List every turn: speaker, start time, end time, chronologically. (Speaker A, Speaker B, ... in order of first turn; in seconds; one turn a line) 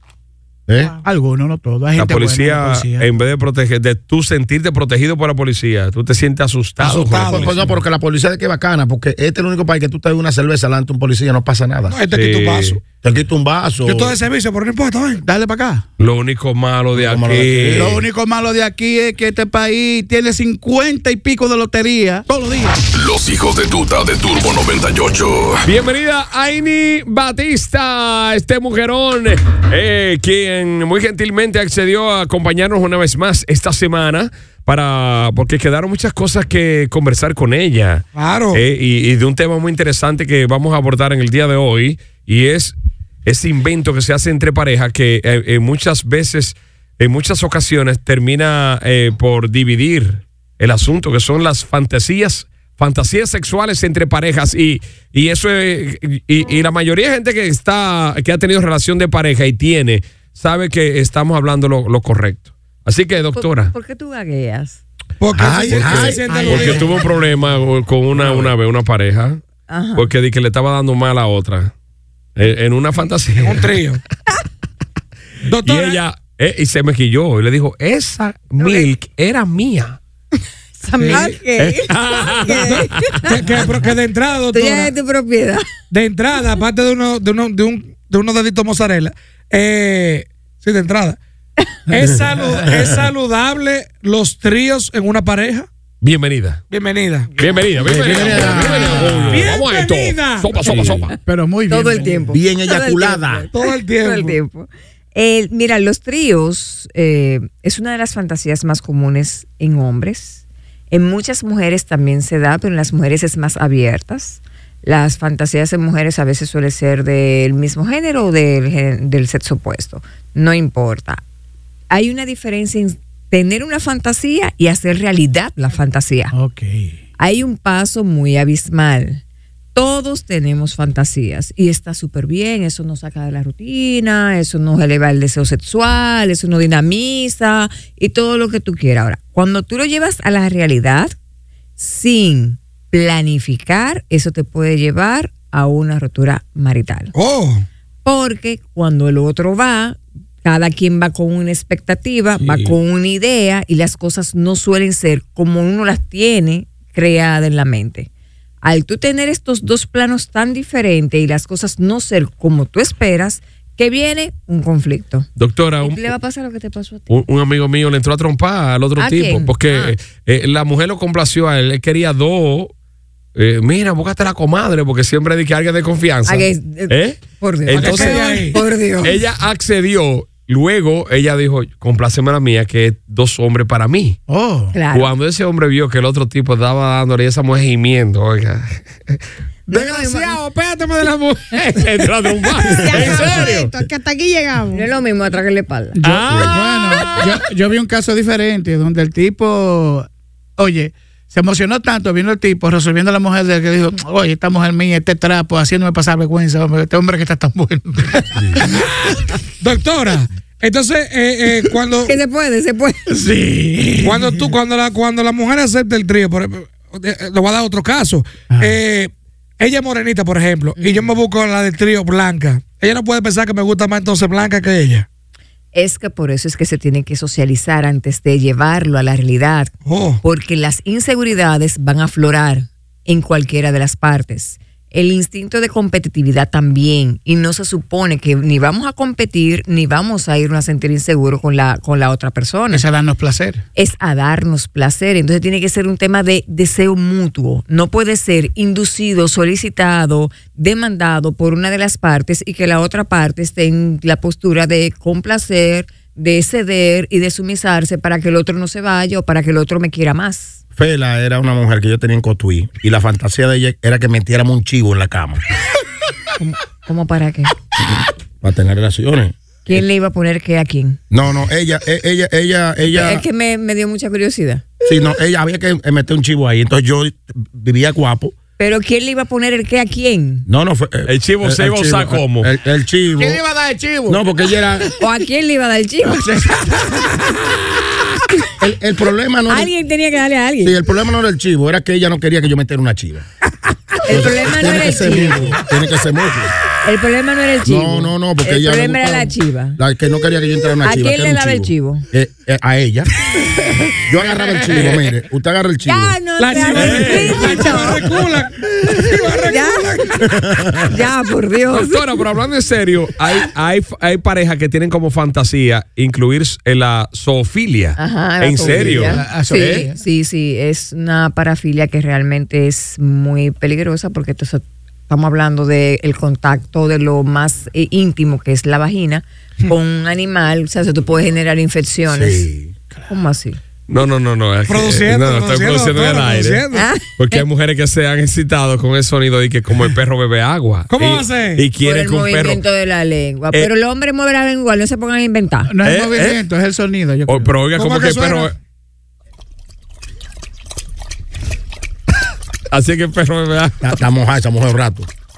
Speaker A: 0.7-0.9
Speaker B: 1.0-3.1
Speaker C: 1.9-7.6
Speaker D: 6.8-7.6
Speaker A: 7.2-11.9
Speaker D: 11.9-12.8
Speaker C: 12.1-12.8
Speaker A: 13.0-14.1
Speaker D: 13.8-15.2
Speaker B: 15.2-15.8
Speaker C: 16.0-18.0
Speaker A: 16.9-18.0
Speaker B: 17.7-22.8
Speaker E: 22.9-25.7
Speaker C: 25.6-63.7
Speaker D: 38.1-38.6
Speaker F: 63.3-64.8
Speaker D: 65.2-66.9
Speaker A: 65.3-66.6
Speaker C: 65.7-69.4
Speaker B: 66.3-66.9
Speaker F: 69.7-70.1
Speaker C: 69.9-71.7
Speaker C: 72.3-73.7
Speaker D: 73.4-74.0
Speaker D: 75.5-76.0
Speaker C: 75.6-80.0
Speaker F: 78.6-78.9
Speaker G: 80.8-82.9
Speaker D: 81.0-81.3
Speaker C: 81.6-83.2
Speaker F: 82.4-83.2
Speaker D: 83.2-84.9
Speaker F: 84.5-85.7
Speaker D: 85.9-91.2
Speaker D: 91.9-95.7
Speaker C: 96.0-96.6
Speaker D: 96.7-97.3
Speaker C: 97.4-101.1
Speaker A: 97.8-99.5
Speaker D: 99.0-100.6
Speaker A: 100.7-100.9
Speaker B: 101.2-102.4
Speaker F: 101.7-121.2
Speaker A: 102.3-103.5
Speaker D: 103.5-104.4
Speaker F: 121.9-126.3
Speaker B: 126.3-127.0
Speaker F: 127.2-129.2
Speaker F: 129.7-141.1
Speaker F: 141.8-147.1
Speaker D: 147.1-147.7
Speaker F: 148.0-158.1
Speaker A: 152.4-152.7
Speaker F: 158.6-165.3
Speaker C: 165.3-166.1
Speaker F: 165.8-167.2
Speaker C: 167.1-172.7
Speaker F: 169.0-169.9
Speaker C: 173.3-184.2
Speaker F: 176.2-179.2
Speaker D: 177.7-178.6
Speaker B: 184.3-184.8
Speaker F: 184.7-185.1
Speaker C: 184.9-189.2
Speaker F: 189.7-190.4
Speaker C: 189.7-193.7
Speaker G: 192.6-194.9
Speaker F: 194.7-196.0
Speaker B: 195.9-208.6
Speaker C: 196.0-197.4
Speaker D: 209.6-212.2
Speaker F: 212.1-213.0
Speaker B: 213.1-214.5
Speaker D: 214.0-225.1
Speaker B: 218.5-218.8
Speaker F: 220.8-221.0
Speaker F: 225.7-242.8
Speaker D: 229.8-230.2
Speaker B: 242.7-243.6
Speaker F: 243.7-260.6
Speaker A: 260.8-265.4
Speaker F: 266.4-267.5
Speaker A: 267.8-269.8
Speaker F: 269.6-271.0
Speaker A: 271.1-273.2
Speaker F: 272.9-274.6
Speaker A: 274.8-278.4
Speaker F: 278.6-280.5
Speaker A: 280.5-283.4
Speaker C: 281.1-282.5
Speaker B: 283.2-284.2
Speaker A: 284.1-284.9
Speaker F: 285.0-286.2
Speaker B: 286.0-287.1
Speaker A: 288.6-289.7
Speaker F: 289.5-290.8
Speaker A: 290.6-293.2
Speaker F: 294.1-295.6
Speaker A: 294.1-296.5
Speaker F: 296.8-299.8
Speaker A: 297.6-303.1
Speaker F: 300.8-302.1
Speaker A: 304.0-306.1
Speaker C: 304.2-305.1
Speaker F: 305.8-308.1
Speaker D: 306.4-310.2
Speaker C: 306.6-307.7
Speaker F: 309.4-310.3
Speaker A: 310.3-310.7
Speaker F: 310.9-312.2
Speaker C: 311.7-319.9
Speaker F: 317.9-332.5
Speaker B: 318.6-320.0
Speaker A: 332.1-332.7
Speaker F: 333.1-333.6
Speaker C: 333.9-342.6
Speaker D: 334.7-336.9
Speaker F: 336.7-337.4
Speaker D: 340.9-341.6
Speaker F: 341.8-345.7
Speaker B: 345.6-347.5
Speaker C: 345.8-346.4
Speaker C: 347.3-348.5
Speaker D: 347.7-348.5
Speaker C: 352.7-353.8
Speaker A: 353.8-355.1